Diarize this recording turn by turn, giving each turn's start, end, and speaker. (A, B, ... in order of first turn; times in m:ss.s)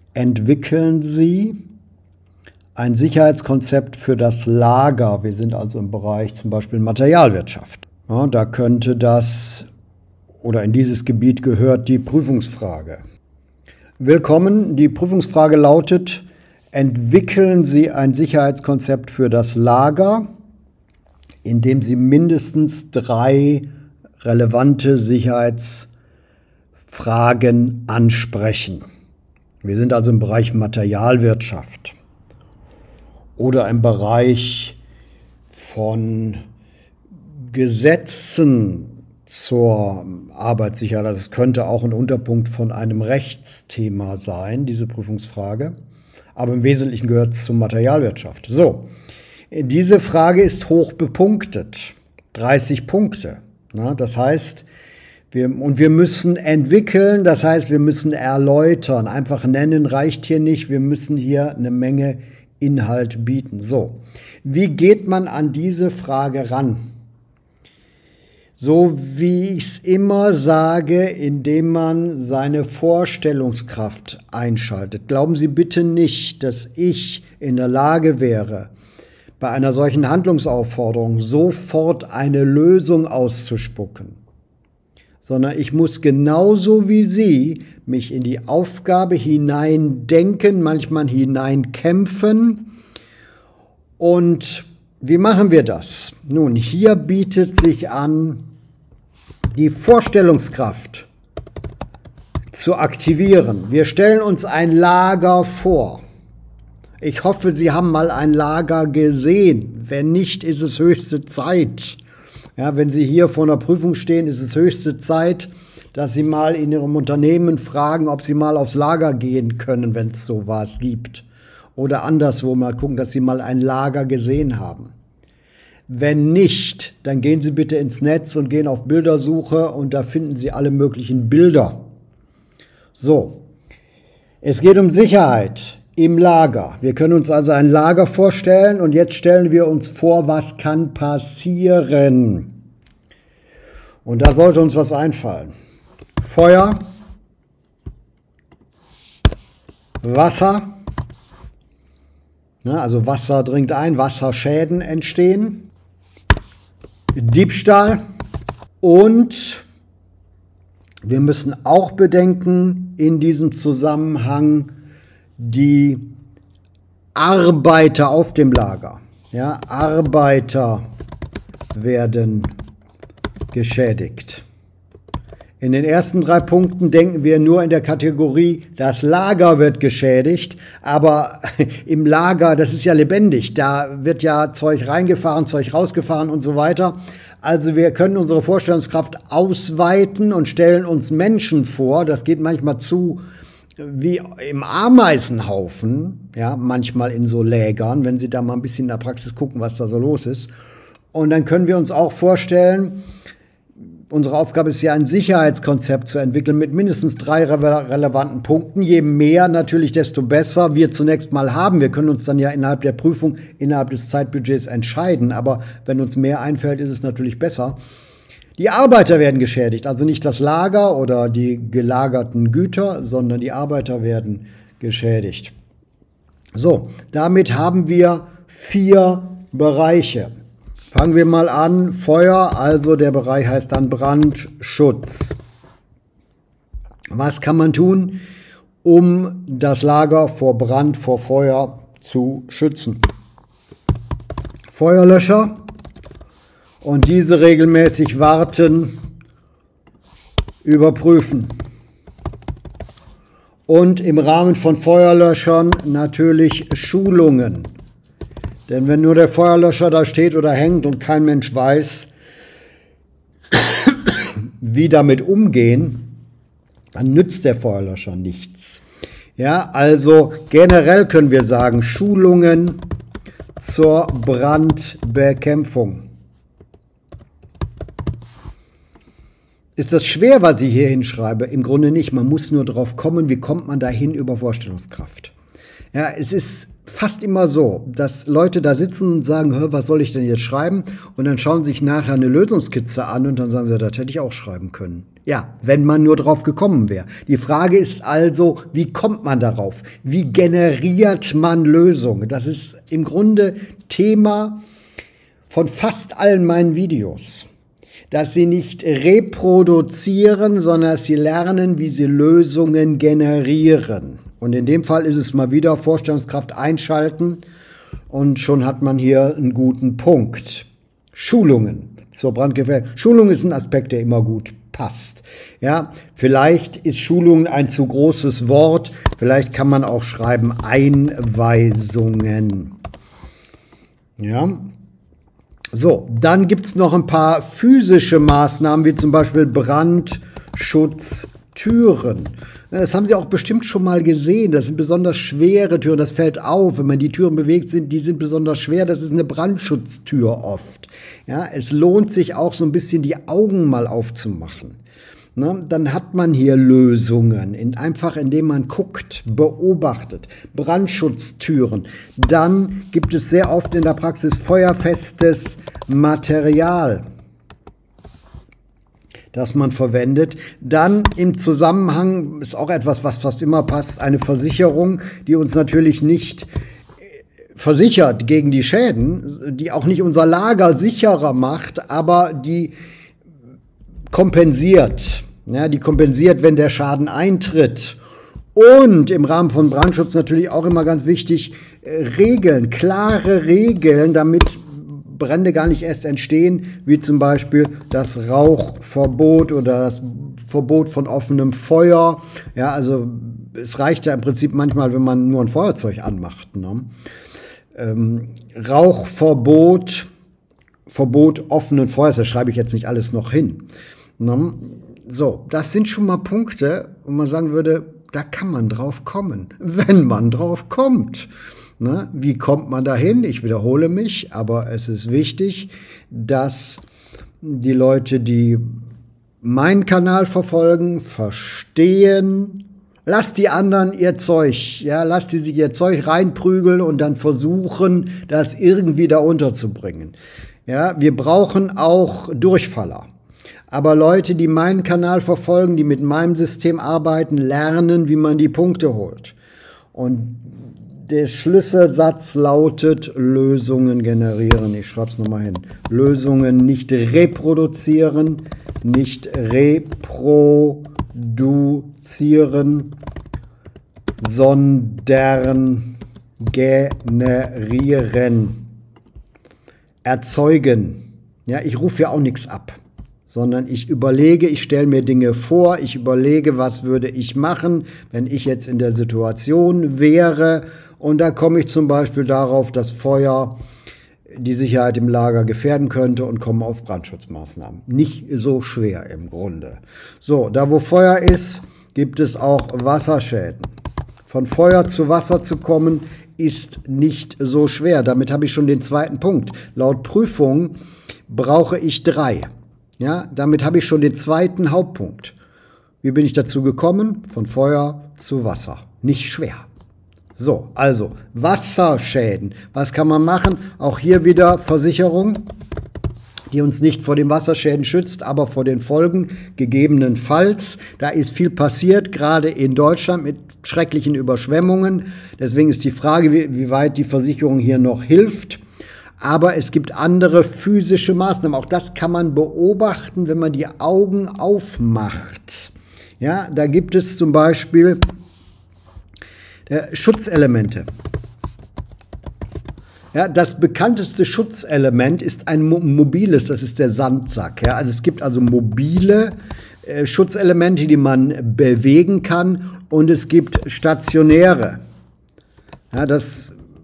0:00.1-0:01.6 A
0:02.8-0:09.6 A
0:10.4-0:13.0 A
0:14.0-0:20.3 A
0:21.4-0:23.7 A
0:24.2-0:25.9 A
0:26.9-0:28.8 A
0:29.6-0:32.0 A
0:33.4-0:34.8 A
0:35.5-0:36.4 A
0:37.5-0:45.7 A
0:46.4-0:48.9 A
0:49.5-0:54.6 A
0:55.3-1:06.8 A
1:08.6-1:18.7 A
1:19.4-1:24.2 A
1:25.2-1:32.7 A
1:34.0-1:38.4 A
1:39.5-1:41.1 A
1:42.5-1:46.0 A
1:47.0-1:52.0 A
1:52.6-2:01.2 A
2:01.8-2:04.9 A
2:05.9-2:11.8 A
2:12.9-2:13.4 A
2:14.4-2:22.5 A
2:24.0-2:25.5 A
2:26.2-2:26.8 A
2:30.0-2:30.7 A
2:32.6-2:35.7 A
2:37.1-2:38.0 A
2:38.8-2:39.6 A
2:41.0-2:44.7 A
2:45.4-2:46.0 A
2:47.1-2:50.8 A
2:51.7-2:52.5 A
2:53.5-2:54.4 A
2:55.6-3:13.2 A
3:13.8-3:20.5 A
3:21.1-3:23.0 A
3:24.1-3:37.8 A
3:38.6-3:45.5 A
3:46.5-3:50.3 A
3:50.9-3:55.4 A
3:57.1-3:58.2 A
3:58.8-4:03.0 A
4:04.7-4:05.6 A
4:06.8-4:09.0 A
4:10.6-4:11.5 A
4:13.7-4:17.7 A
4:18.7-4:22.1 A
4:23.5-4:26.1 A
4:26.9-4:28.8 A
4:29.4-4:32.8 A
4:33.6-4:36.0 A
4:39.8-4:45.3 A
4:45.9-5:04.6 A
5:05.5-5:07.5 A
5:08.1-5:17.4 A
5:18.1-5:32.7 A
5:34.2-5:34.7 A
5:35.7-5:54.8 A
5:55.4-6:07.0 A
6:09.3-6:16.5 A
6:17.5-6:22.7 A
6:24.1-6:28.0 A
6:28.5-6:46.9 A
6:47.7-6:50.1 A
6:50.9-6:53.6 A
6:54.2-7:06.8 A
7:07.4-7:08.7 A
7:09.4-7:20.1 A
7:20.7-7:23.1 A
7:23.7-7:29.3 A
7:29.9-7:43.0 A
7:44.2-7:48.7 A
7:50.0-7:52.8 A
7:53.3-8:03.6 A
8:04.3-8:13.7 A
8:14.3-8:20.7 A
8:21.3-8:25.4 A
8:26.0-8:29.6 A
8:30.4-8:35.5 A
8:36.5-8:48.6 A
8:49.2-8:58.0 A
8:59.7-9:00.9 A
9:03.1-9:14.8 A
9:15.9-9:16.5 A